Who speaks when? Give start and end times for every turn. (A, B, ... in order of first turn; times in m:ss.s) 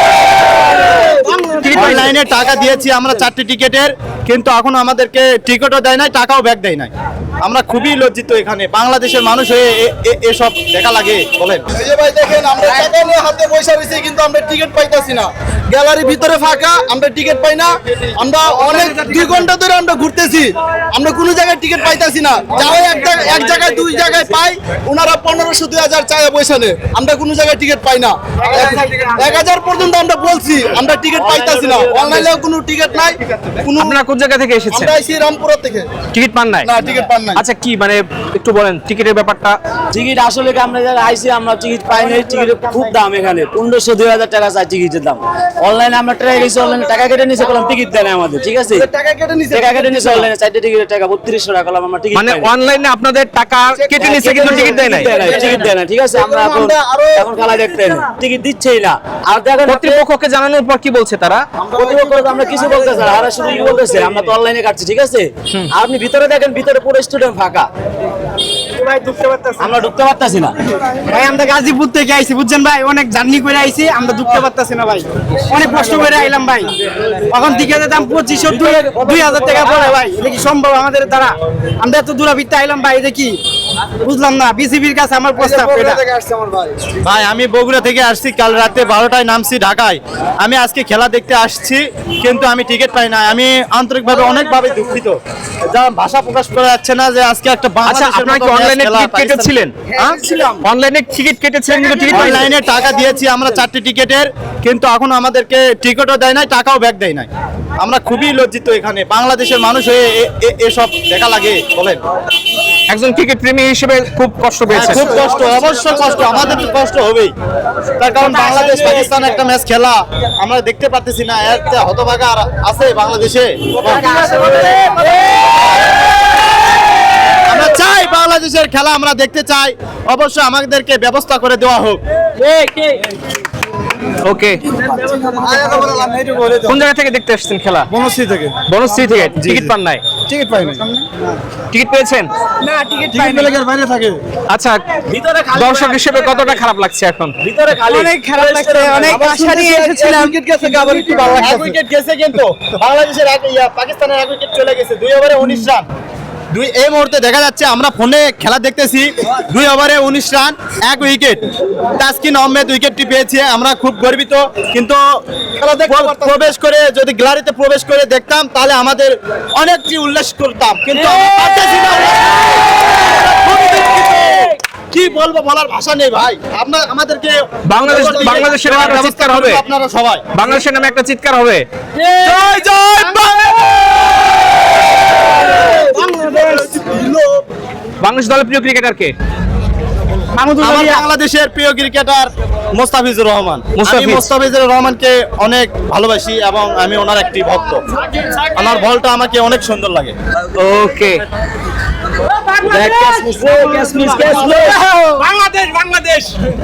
0:01.4-0:01.6 A
0:01.6-0:02.1 B
0:01.7-0:06.9 C
0:07.4-0:11.6 C
0:11.8-0:34.0 D
0:19.0-0:19.3 A
0:23.0-0:24.3 E
0:28.4-0:29.4 A
0:31.2-0:32.5 E
0:33.8-0:35.0 B
0:34.7-0:35.9 D
0:36.1-0:36.7 B
0:36.6-0:37.4 D
0:37.4-0:39.6 B
0:39.9-0:48.9 E
0:48.8-0:50.3 D
0:49.5-0:52.5 E
0:52.1-0:55.2 B
0:53.8-0:57.3 D
0:54.0-1:00.0 E
0:59.6-1:01.4 B
1:01.8-1:07.7 E
1:01.9-1:02.2 D
1:08.8-1:09.7 A
1:09.6-1:10.6 E
1:11.1-1:16.7 A
1:17.3-1:23.4 A
1:18.5-1:19.9 E
1:24.0-1:26.0 A
1:25.4-1:26.9 D
1:27.0-1:35.2 C
1:35.7-1:39.5 C
1:37.8-1:39.9 B
1:40.6-1:42.5 B
1:42.1-1:47.3 C
1:47.8-1:52.0 C
1:52.9-1:55.2 B
1:54.7-1:57.3 C
1:58.0-2:04.2 C
1:58.2-1:59.2 A
2:04.0-2:05.0 E
2:04.2-2:04.8 A
2:07.5-2:12.0 C
2:12.4-2:12.8 E
2:14.2-2:14.6 B
2:15.4-2:16.8 D
2:15.6-2:15.9 A
2:16.7-2:17.9 B
2:17.9-2:18.6 D
2:18.7-2:20.0 B
2:19.4-2:19.7 D
2:20.3-2:20.8 D
2:20.7-2:21.1 A
2:21.7-2:22.3 B
2:22.6-2:23.6 A
2:23.1-2:24.2 D
2:24.5-2:24.8 B
2:25.1-2:26.6 E
2:25.5-2:27.3 B
2:27.4-2:29.3 E
2:27.9-2:30.4 A
2:29.1-2:31.8 D
2:30.0-2:30.9 E
2:31.1-2:35.8 C
2:36.5-2:41.4 C
2:42.0-2:45.0 C
2:45.6-2:46.4 D
2:45.8-3:00.3 C
2:51.0-2:51.4 B
2:57.7-2:59.6 B
3:00.4-3:01.6 B
3:02.0-3:03.9 D
3:05.7-3:07.4 D
3:05.7-3:06.8 A
3:08.0-3:09.1 B
3:10.4-3:11.0 A
3:10.6-3:17.8 C
3:13.8-3:14.3 B
3:18.5-3:20.2 C
3:20.6-3:21.2 B
3:22.4-3:26.3 A
3:22.7-3:24.8 E